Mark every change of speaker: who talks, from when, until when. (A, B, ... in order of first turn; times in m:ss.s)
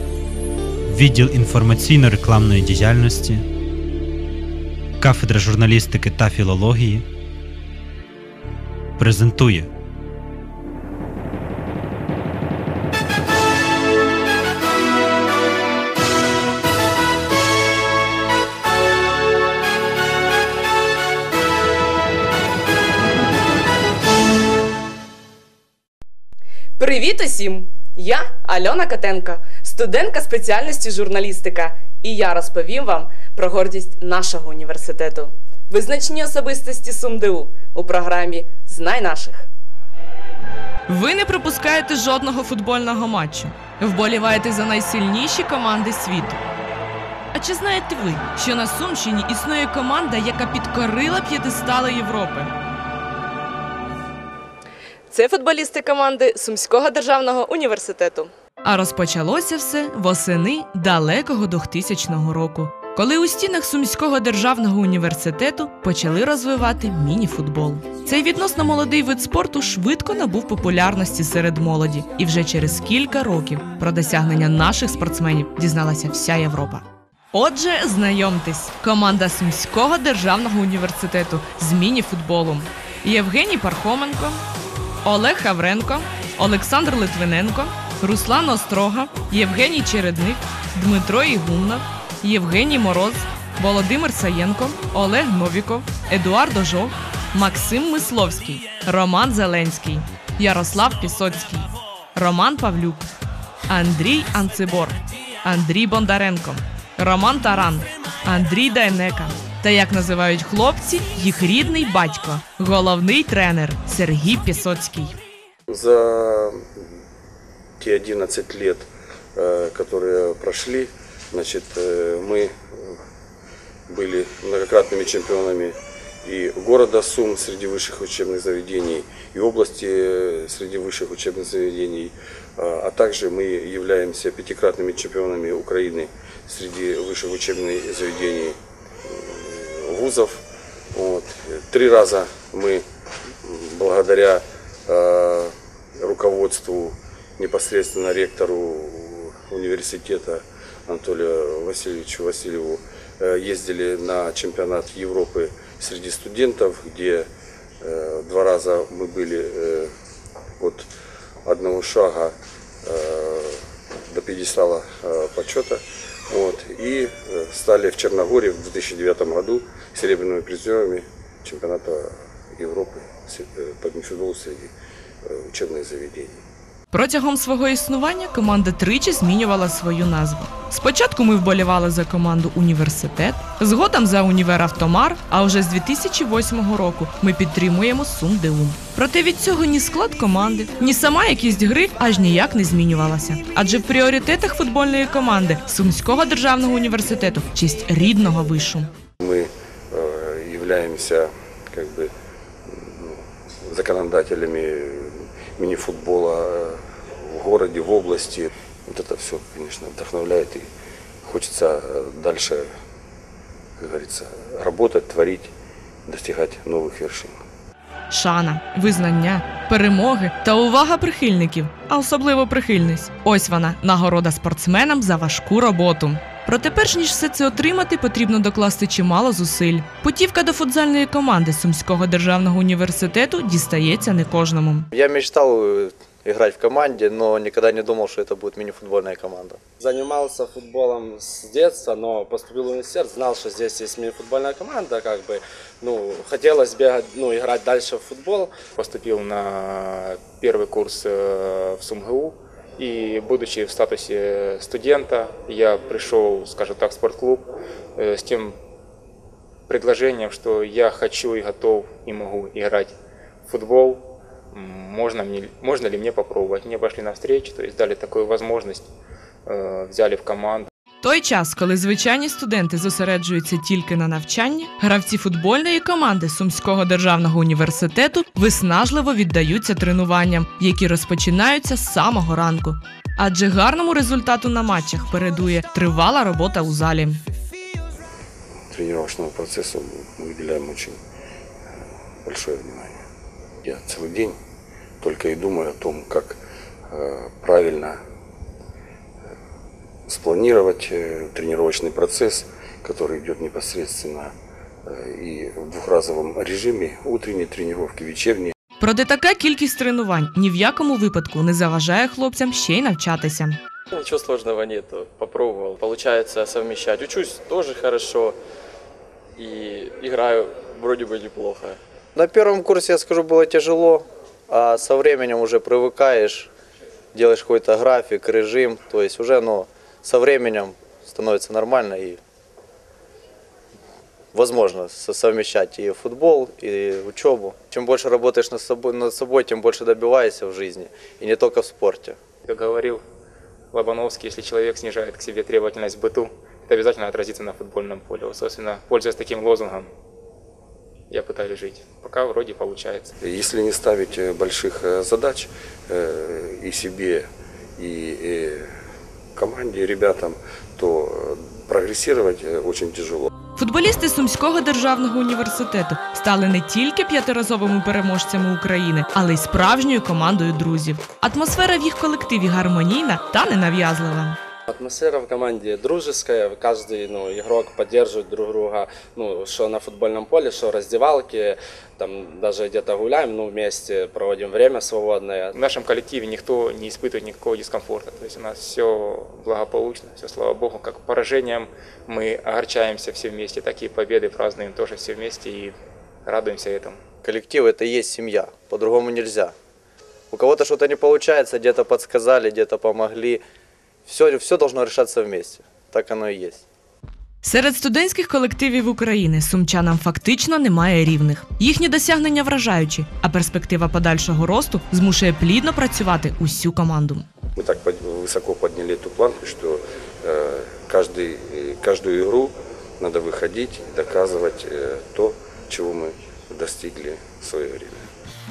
0:00.9-0:03.4 A
0:05.0-0:07.0 A
0:09.0-0:09.7 A
0:26.8-0:39.5 B
0:40.9-0:46.4 B
0:47.3-0:52.5 B
0:55.1-1:24.4 B
1:25.0-1:43.1 B
1:43.7-1:55.2 B
1:55.7-1:56.6 C
1:57.8-2:03.0 C
2:03.9-2:20.4 C
2:20.9-2:22.8 C
2:23.4-2:37.3 C
2:37.8-2:39.9 C
2:40.6-2:40.9 C
2:41.4-2:54.7 C
2:55.2-2:56.4 C
2:56.9-3:18.9 B
3:19.2-3:22.1 C
3:22.7-3:30.6 C
3:31.2-3:32.6 C
3:33.8-3:35.5 C
3:36.0-3:37.4 C
3:38.1-3:54.9 B
3:54.9-3:59.6 D
3:59.8-4:08.5 E
4:08.8-4:18.5 F
4:19.7-4:22.9 F
4:23.4-4:28.9 F
4:29.4-4:30.7 F
4:31.0-4:47.2 B
4:48.7-4:51.0 C
4:52.2-4:53.0 C
4:53.6-4:54.4 C
4:55.0-4:58.0 C
5:00.1-5:04.3 C
5:04.8-5:08.5 C
5:08.8-5:13.6 B
5:13.9-5:18.4 G
5:19.4-5:21.8 G
5:22.1-5:26.5 D
5:27.1-5:32.2 D
5:34.3-5:42.2 D
5:42.4-5:43.0 F
5:43.7-5:49.8 F
5:51.1-5:53.1 F
5:53.2-5:58.7 C
5:59.4-6:03.3 C
6:03.6-6:14.4 B
6:14.7-6:25.5 E
6:25.5-6:35.7 F
6:36.2-6:37.0 F
6:37.2-6:39.5 D
6:40.3-6:43.4 D
6:44.0-6:46.6 D
6:47.4-6:57.2 B
6:57.6-7:08.1 C